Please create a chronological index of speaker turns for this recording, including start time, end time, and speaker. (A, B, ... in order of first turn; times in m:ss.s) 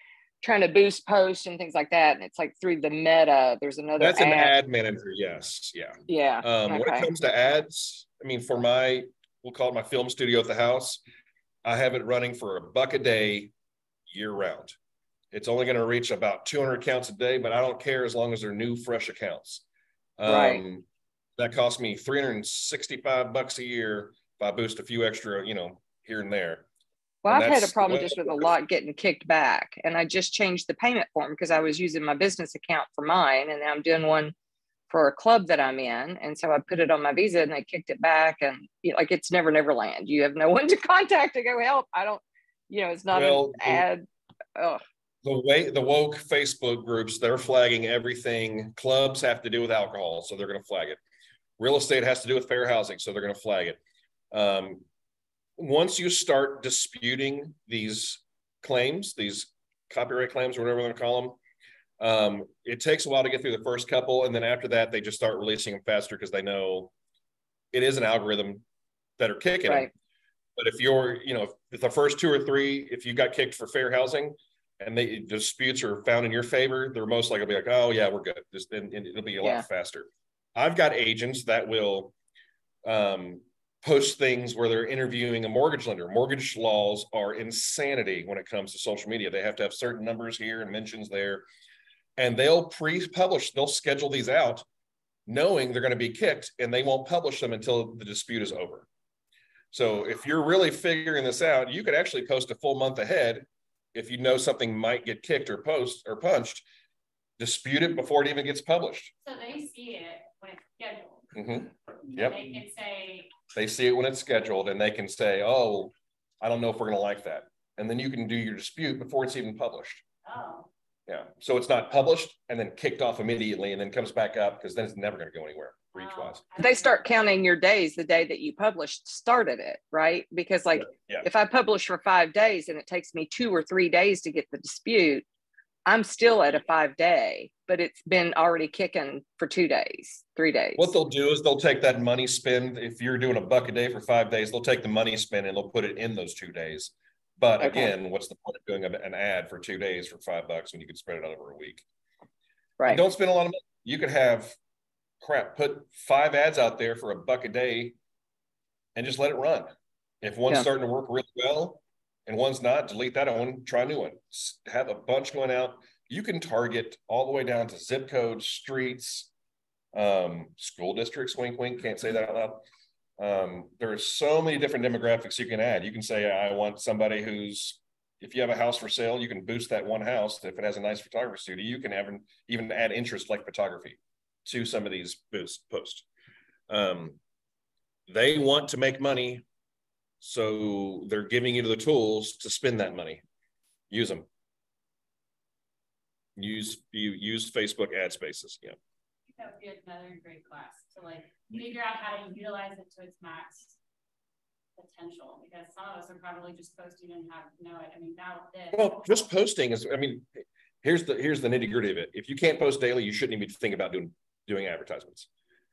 0:00.4-0:04.5 A
0:04.0-0:11.0 B
0:06.1-0:07.1 A
0:11.6-0:13.5 B
0:14.1-0:14.8 B
0:15.3-0:19.6 B
0:20.2-0:20.8 B
0:20.2-0:20.6 A
0:21.4-0:26.6 B
0:27.2-0:34.3 A
0:27.3-0:28.5 B
0:34.9-0:44.8 A
0:43.1-0:43.8 B
0:45.2-0:51.0 B
0:51.6-0:53.8 B
0:54.3-0:54.8 B
0:55.6-1:01.4 B
1:02.0-1:06.9 B
1:07.7-1:08.6 B
1:09.2-1:09.9 B
1:09.6-1:09.9 A
1:10.6-1:22.1 B
1:22.8-1:31.4 B
1:32.2-1:34.6 B
1:35.3-1:38.9 B
1:39.7-1:46.6 B
1:47.4-1:49.1 B
1:49.2-1:51.3 C
1:51.3-1:52.4 B
1:52.1-1:53.3 C
1:53.5-2:00.0 B
2:00.2-2:00.7 C
2:01.1-2:06.4 B
2:05.9-2:07.2 C
2:06.6-2:15.2 A
2:15.8-2:20.9 A
2:20.8-2:31.8 B
2:27.6-2:27.9 A
2:32.8-2:33.0 A
2:32.8-2:34.6 B
2:35.2-2:37.9 B
2:39.0-2:49.3 B
2:49.9-2:52.6 B
2:53.2-3:06.0 B
3:06.7-3:07.2 B
3:08.1-3:09.4 B
3:10.2-3:13.2 B
3:13.9-3:14.2 B
3:16.4-3:18.8 B
3:19.3-3:23.8 C
3:24.8-3:29.3 C
3:28.7-3:35.3 B